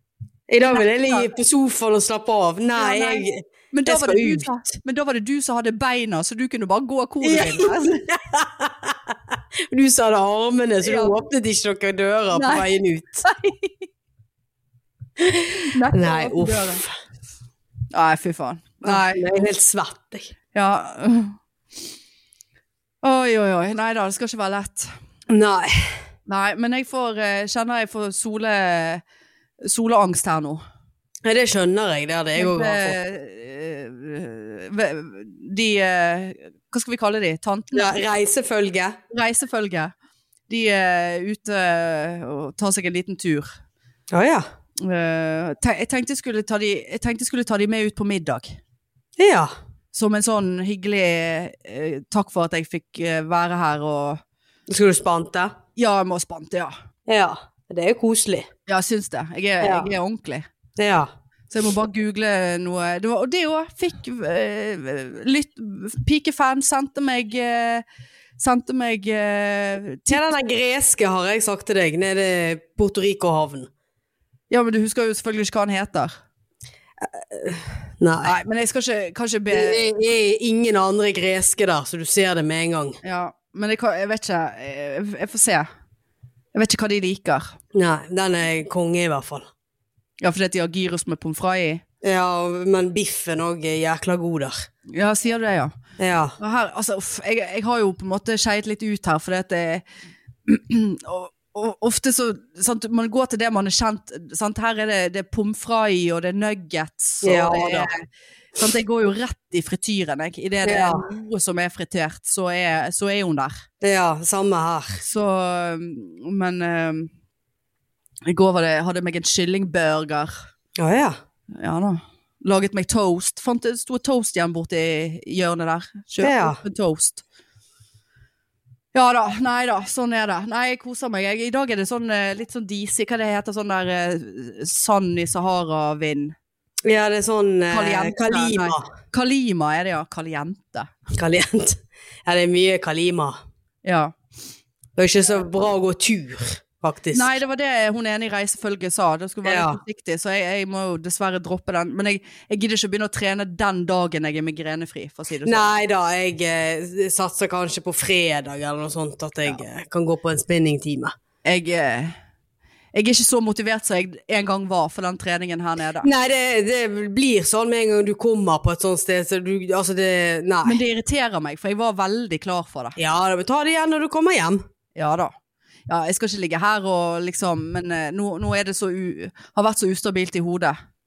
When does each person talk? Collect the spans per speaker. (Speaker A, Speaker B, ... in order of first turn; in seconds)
Speaker A: 0.5-4.5, 7.2-13.2, 15.2-16.9, 18.8-20.3, 25.3-25.7, 31.2-33.0, 37.7-39.0, 44.1-44.4, 49.2-49.5, 54.7-55.5, 57.1-58.5, 59.6-59.9, 60.8-61.1, 70.1-73.7, 77.0-78.3, 79.5-83.0, 87.7-89.5, 92.0-94.5, 96.0-96.3, 107.2-107.9, 110.7-111.0, 113.8-115.0, 120.8-121.2, 126.2-126.6, 136.8-138.9, 141.2-143.4, 145.0-147.4, 149.4-149.8, 155.4-161.1, 166.0-170.8, 173.0-174.6
Speaker B: 0.7-1.3, 2.7-8.0, 10.8-11.1, 12.3-12.7, 13.2-13.9, 15.7-16.8, 17.9-19.3, 20.5-21.4, 23.0-24.9, 26.3-29.0, 29.6-30.6, 32.4-38.0, 39.1-39.9, 40.5-43.5, 44.8-48.6, 49.9-54.2, 55.8-56.7, 58.7-60.5, 61.5-67.8, 68.4-70.3, 74.5-76.1, 78.2-79.8, 83.0-85.7, 86.5-87.5, 90.2-91.8, 94.9-95.7, 96.4-99.8, 100.5-113.6, 115.0-117.1, 118.3-120.3, 121.6-127.2, 128.9-136.3, 137.7-140.9, 143.8-144.1, 147.1-155.7, 161.4-162.1, 162.9-166.1, 170.7-173.0, 175.0-175.3, 175.9-180.8